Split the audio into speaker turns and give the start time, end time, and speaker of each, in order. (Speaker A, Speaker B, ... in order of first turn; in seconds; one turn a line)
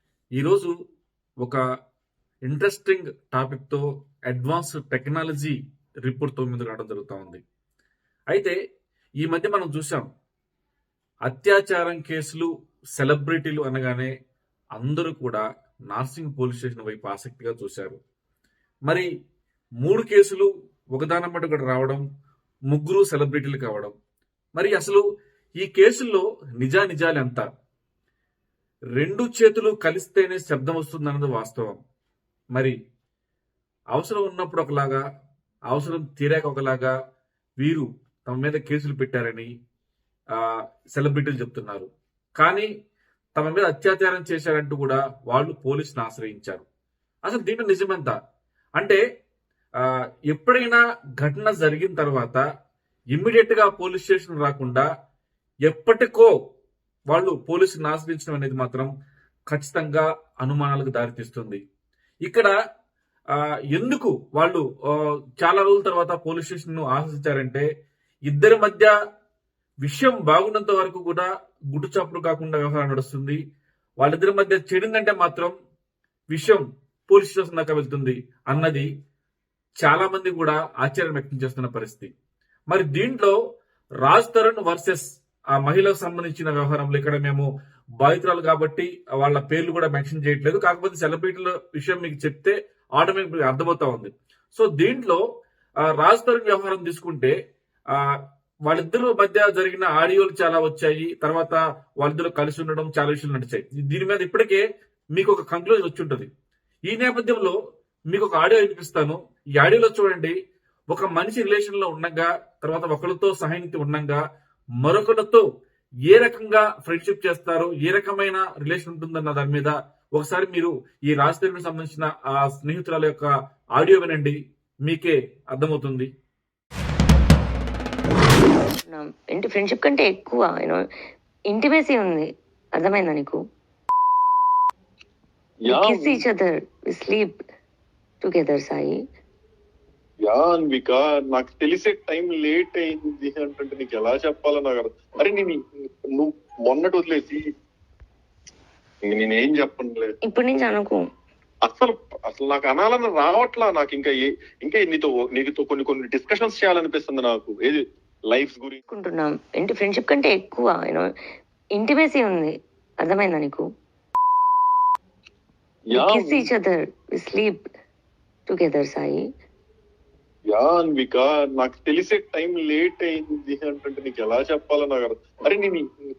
Speaker A: 0.4-0.7
Speaker A: 2.5-7.4
Speaker A: 8.3-8.6
Speaker A: 9.2-10.1
Speaker A: 11.2-14.1
Speaker A: 14.8-18.0
Speaker A: 19.8-22.0
Speaker A: 22.7-23.9
Speaker A: 24.5-25.0
Speaker A: 25.6-27.4
Speaker A: 29.0-31.8
Speaker A: 33.9-35.0
Speaker A: 35.7-36.9
Speaker A: 37.6-39.5
Speaker A: 40.4-42.7
Speaker A: 43.4-46.6
Speaker A: 47.2-48.1
Speaker A: 50.3-52.4
Speaker A: 53.1-54.9
Speaker A: 55.7-56.3
Speaker A: 57.1-58.9
Speaker A: 59.5-61.6
Speaker A: 62.2-62.5
Speaker A: 63.7-64.7
Speaker A: 65.4-67.7
Speaker A: 68.3-68.9
Speaker A: 69.8-73.4
Speaker A: 74.0-75.5
Speaker A: 76.3-78.9
Speaker A: 79.8-82.1
Speaker A: 82.7-83.4
Speaker A: 84.0-87.5
Speaker A: 88.0-95.2
Speaker A: 95.8-97.3
Speaker A: 98.7-104.6
Speaker A: 105.1-106.3
Speaker A: 106.9-107.5
Speaker A: 108.1-110.3
Speaker A: 110.9-114.2
Speaker A: 114.8-115.4
Speaker A: 116.1-126.1
Speaker B: 128.8-130.8
Speaker B: 131.5-133.4
Speaker C: 135.7-136.2
Speaker B: 135.7-137.4
Speaker B: 138.2-139.0
Speaker C: 140.3-145.6
Speaker C: 146.2-147.4
Speaker C: 149.1-150.1
Speaker B: 150.2-151.0
Speaker C: 151.7-158.8
Speaker B: 158.9-161.1
Speaker B: 161.8-163.7
Speaker C: 165.9-166.5
Speaker B: 165.9-167.7
Speaker B: 168.5-169.3
Speaker C: 170.5-175.8